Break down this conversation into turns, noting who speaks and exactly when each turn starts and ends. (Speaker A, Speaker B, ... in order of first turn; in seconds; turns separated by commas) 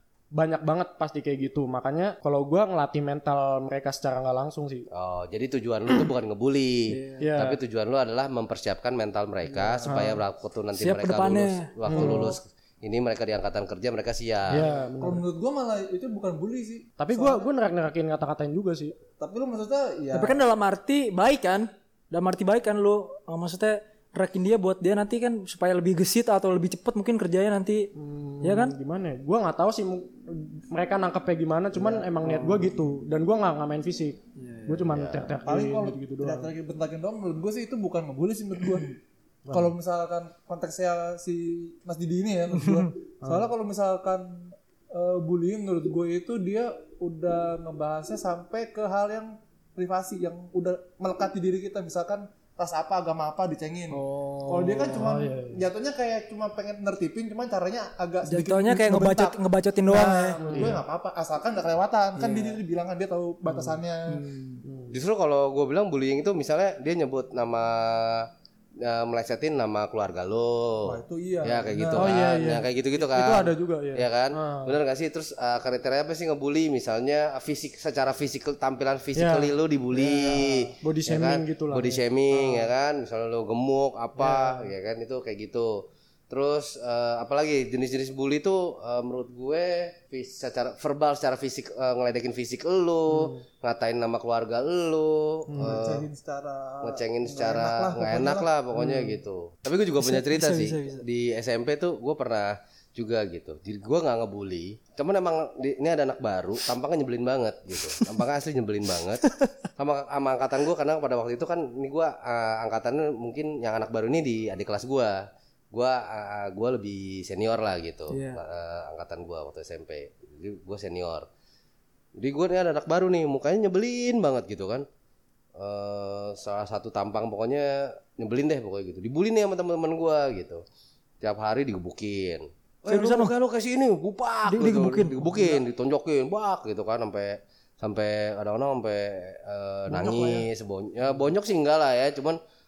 Speaker A: 0.3-4.9, Speaker B: 4.9-14.7, Speaker C: 6.9-7.2, Speaker A: 7.2-7.6, Speaker D: 9.5-9.9, Speaker A: 9.8-10.2, Speaker C: 10.7-12.3, Speaker A: 11.8-12.3, Speaker A: 14.5-15.2, Speaker D: 15.0-17.5, Speaker A: 17.0-18.9, Speaker D: 19.2-20.4, Speaker C: 20.1-27.9, Speaker A: 27.9-36.5, Speaker C: 28.4-28.7, Speaker D: 31.8-32.7, Speaker B: 34.9-35.3, Speaker D: 35.4-39.0, Speaker D: 39.5-64.3, Speaker C: 42.6-42.9, Speaker A: 53.9-55.6, Speaker C: 58.3-60.4, Speaker A: 60.4-60.8, Speaker C: 62.2-62.5, Speaker C: 64.1-64.6, Speaker A: 64.6-65.0, Speaker B: 64.9-96.0, Speaker D: 70.8-72.2, Speaker A: 72.0-74.8, Speaker A: 79.2-82.7, Speaker A: 84.2-84.7, Speaker A: 93.1-93.4, Speaker A: 95.5-95.8, Speaker D: 95.6-98.5, Speaker B: 96.8-109.2, Speaker A: 98.8-99.1, Speaker C: 100.0-101.0, Speaker B: 109.8-121.3, Speaker C: 118.1-118.4, Speaker B: 122.2-124.8, Speaker B: 125.5-130.6, Speaker B: 131.2-142.4, Speaker C: 132.9-133.3, Speaker C: 134.5-135.4, Speaker D: 139.9-140.2